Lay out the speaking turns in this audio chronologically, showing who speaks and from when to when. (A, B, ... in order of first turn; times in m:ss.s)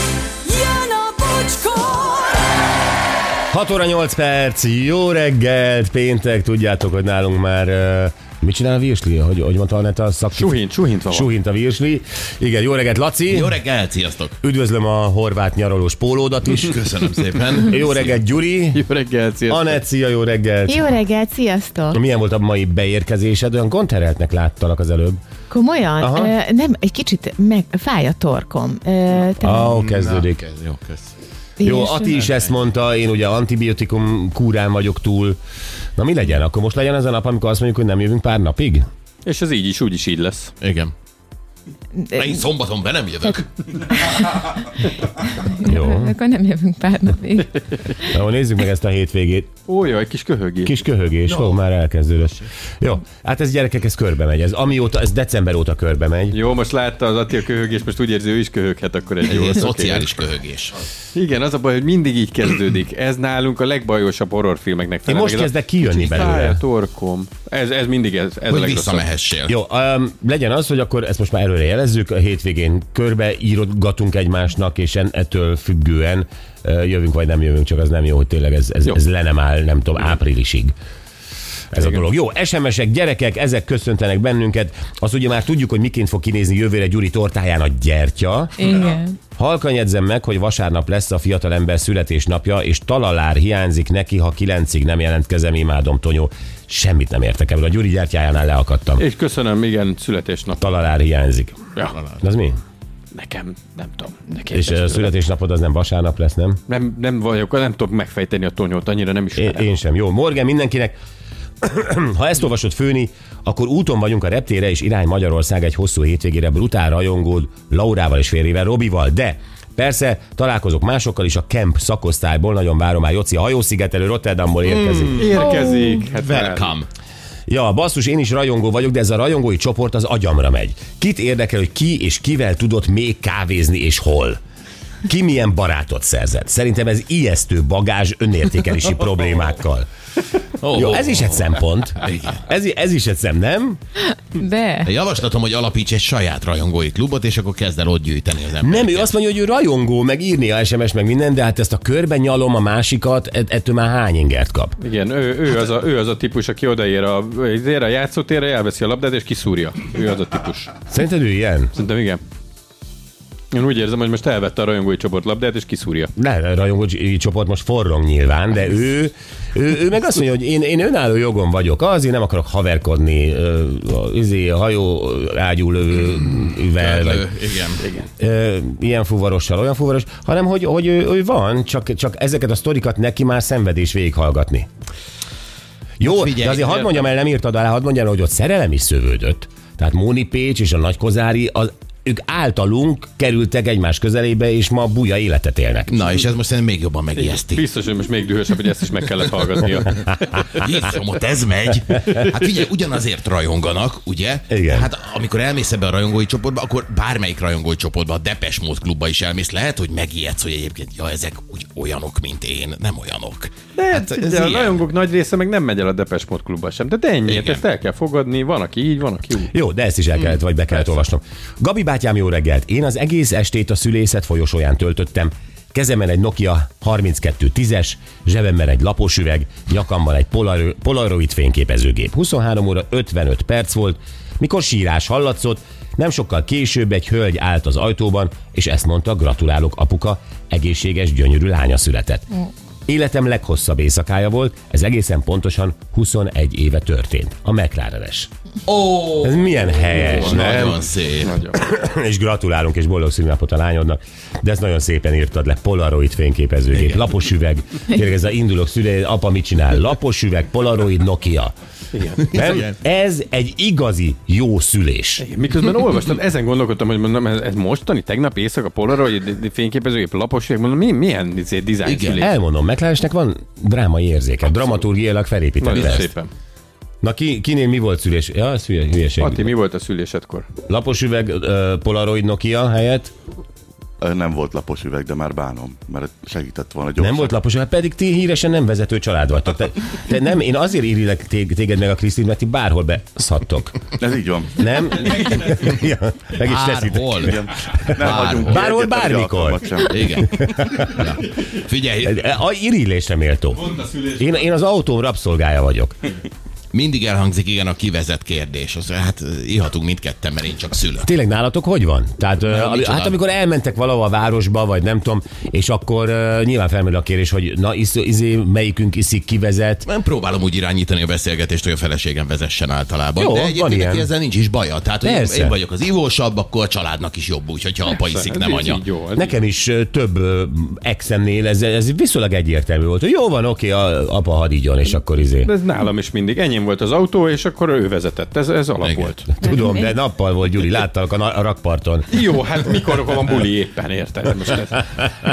0:00.4-0:02.6 A
0:03.5-0:13.6 B
0:10.3-0:11.3 C
0:13.3-0:14.4 D
0:14.4-0:16.9 B
0:16.6-0:18.2 D
0:17.5-0:18.8 B
0:18.7-0:19.8 C
0:19.5-0:20.9 B
0:20.7-0:22.0 E
0:21.9-0:25.2 B
0:25.5-0:29.8 E
0:26.0-0:26.3 B
0:29.4-0:30.4 B
0:29.6-0:31.1 D
0:31.6-0:32.2 E
0:31.6-0:35.4 B
0:36.0-0:38.9 B
0:39.2-0:40.5 C
0:40.6-0:40.9 D
0:42.1-0:43.9 D
0:44.1-0:44.4 E
0:45.4-0:47.6 E
0:45.6-0:46.2 B
0:48.0-0:49.5 B
0:49.7-0:50.8 C
0:50.6-0:56.4 B
0:56.3-1:00.1 C
0:59.2-1:00.8 D
1:01.1-1:09.1 C
1:05.1-1:06.6 B
1:08.5-1:09.5 D
1:09.5-1:20.7 B
1:21.7-1:39.0 B
1:28.6-1:29.2 E
1:39.0-1:40.6 C
1:40.6-1:41.6 B
1:41.9-1:42.2 D
1:42.2-1:42.6 B
1:43.1-1:45.2 C
1:44.5-1:46.6 B
1:46.7-1:49.7 C
1:49.4-1:51.0 B
1:51.6-2:05.4 B
2:04.7-2:06.9 D
2:05.2-2:06.7 C
2:05.5-2:05.9 E
2:07.5-2:14.4 B
2:15.0-2:19.9 B
2:20.6-2:22.4 D
2:20.7-2:23.8 B
2:24.2-2:24.9 E
2:24.8-2:29.1 D
2:28.6-2:34.8 B
2:34.8-2:40.7 C
2:40.9-2:41.8 B
2:41.8-2:42.2 C
2:43.5-2:46.1 C
2:46.2-2:57.3 B
2:56.7-2:57.8 D
2:57.8-2:58.1 C
2:58.2-3:04.7 B
3:06.0-3:16.0 B
3:06.0-3:07.1 D
3:15.9-3:17.6 D
3:17.2-3:20.6 C
3:20.5-3:34.8 D
3:24.5-3:24.9 B
3:33.8-3:39.5 C
3:37.2-3:37.6 D
3:39.5-4:02.3 B
4:02.9-4:08.3 B
4:08.7-4:11.4 D
4:09.2-4:10.9 B
4:09.9-4:10.7 C
4:11.2-4:11.6 C
4:11.5-4:21.5 B
4:16.7-4:17.1 D
4:21.9-4:22.6 C
4:22.3-4:22.7 D
4:22.3-4:25.2 B
4:25.2-4:32.3 C
4:31.8-4:32.2 D
4:32.2-4:36.1 B
4:35.6-4:36.3 C
4:35.7-4:36.0 D
4:37.0-4:39.5 B
4:39.2-4:40.5 C
4:40.7-4:43.1 B
4:44.0-4:47.3 F
4:47.0-4:53.9 B
4:54.0-4:55.1 F
4:54.6-5:01.0 B
4:56.4-4:58.6 D
4:57.2-5:00.4 F
4:59.8-5:02.3 D
5:02.0-5:06.0 B
5:06.7-5:11.1 D
5:11.0-5:19.8 B
5:12.4-5:13.2 D
5:19.8-5:28.8 D
5:23.2-5:24.1 B
5:25.0-5:25.6 B
5:27.9-5:29.3 C
5:29.2-5:35.5 B
5:35.4-5:39.3 C
5:38.8-5:39.1 D
5:39.3-5:42.1 B
5:39.4-5:39.9 E
5:42.1-5:45.1 C